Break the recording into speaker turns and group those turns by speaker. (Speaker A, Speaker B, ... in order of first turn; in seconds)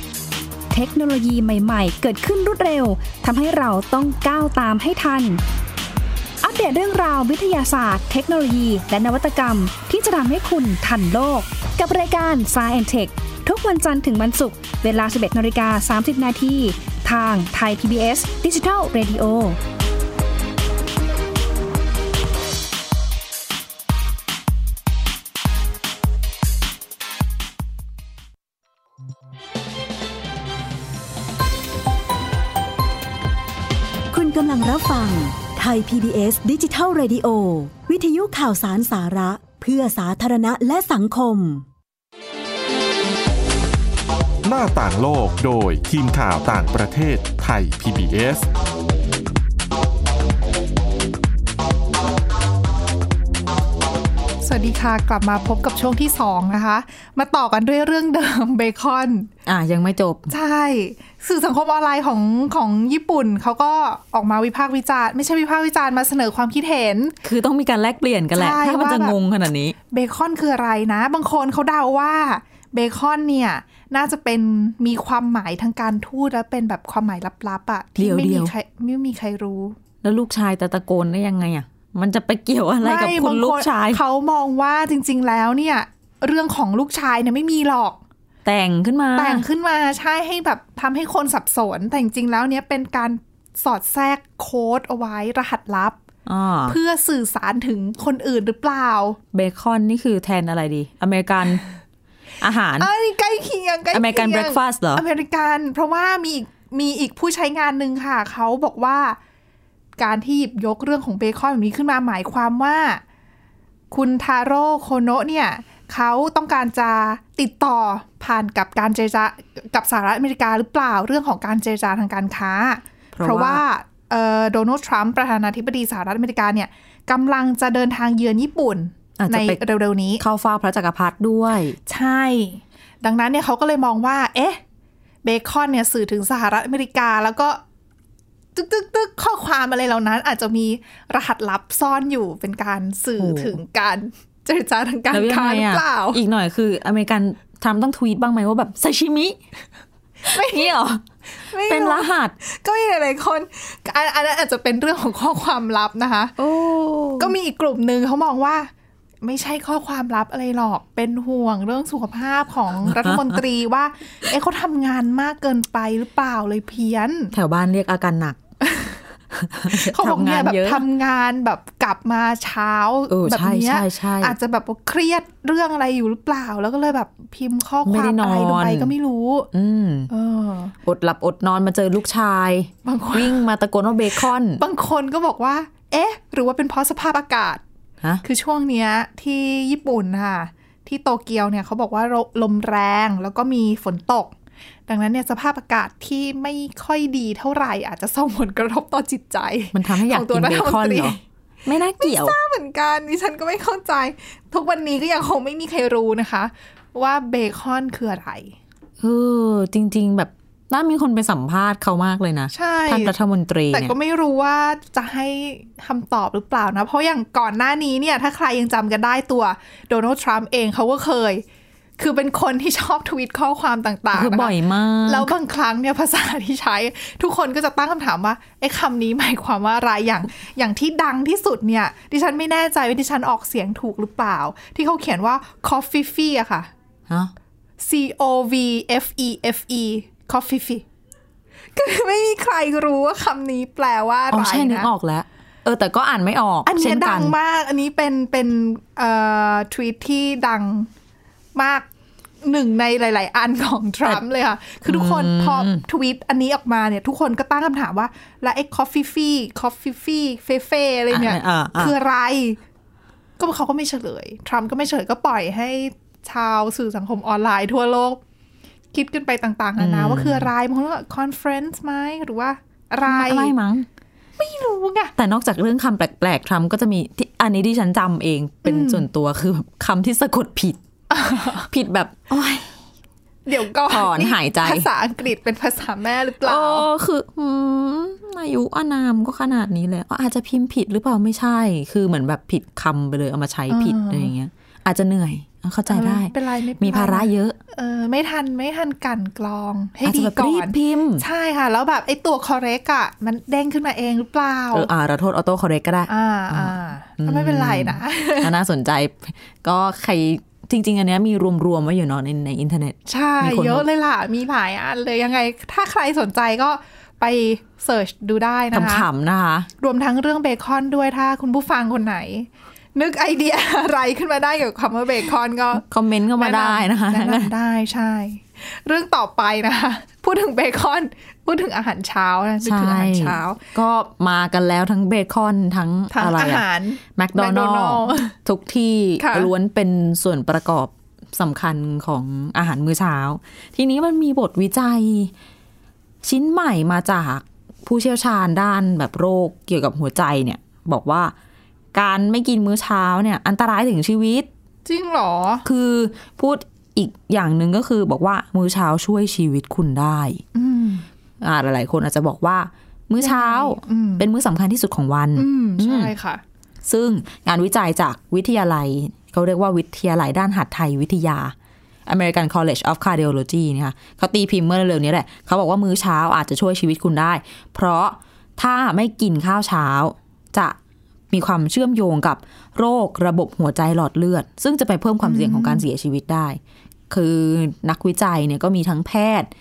Speaker A: 0.7-5.4, 6.4-19.6
Speaker B: 34.1-41.6
Speaker C: 44.4-48.5
Speaker D: 54.4-59.3, 60.3-67.2, 68.3-69.2, 69.9-79.8, 82.8-88.0, 89.2-96.0, 96.7-99.2, 102.8-109.2, 110.0-113.0, 113.9-130.2, 131.9-134.6, 135.2-137.6, 138.5-146.2, 150.2-150.8, 151.4-156.3, 157.2-158.7, 159.2-167.3, 168.6-169.0, 169.7-179.5, 180.1-180.8, 182.8-183.4, 184.6-187.6, 188.2-194.3, 194.9-201.2, 202.0-208.5, 212.5-213.1, 213.7-221.4, 222.0-236.7, 237.8-240.8, 241.8-244.9, 246.7-250.9, 251.6-251.9, 252.4-262.6, 263.4-268.2, 268.9-273.5, 274.4-275.1, 278.6-279.1, 281.1-281.6, 283.4-286.9, 293.7-294.3, 295.9-304.9, 306.1-308.5, 313.1-319.1, 319.8-333.6, 336.1-338.4, 339.2-339.5, 354.9-355.6, 360.5-361.1, 363.2-364.2, 365.4-366.4, 385.2-385.9
Speaker E: 59.5-60.3, 67.2-69.8, 78.0-78.5, 80.0-84.0, 88.4-89.5, 96.2-96.8, 99.3-101.6, 102.4-102.9, 103.9-105.0, 123.1-123.6, 129.2-129.6, 130.2-131.8, 143.2-143.6, 145.1-149.4, 150.3-151.0, 151.7-152.3, 156.4-157.3, 162.9-163.4, 167.3-168.4, 169.3-170.8, 173.1-174.4, 177.8-178.9, 179.5-180.1, 180.8-184.6, 199.7-202.4, 209.0-213.9, 224.1-225.3, 244.3-247.3, 254.8-255.8, 261.1-261.9, 269.8-270.5, 273.0-273.9, 275.1-280.8, 281.6-282.7, 283.9-284.9, 286.4-297.6, 300.0-301.2, 304.7-313.9, 318.7-319.7, 325.8-327.5, 332.6-345.3, 346.2-351.4, 351.9-354.5, 355.6-360.4, 361.4-366.1, 366.9-371.5, 372.1-380.8, 381.3-389.5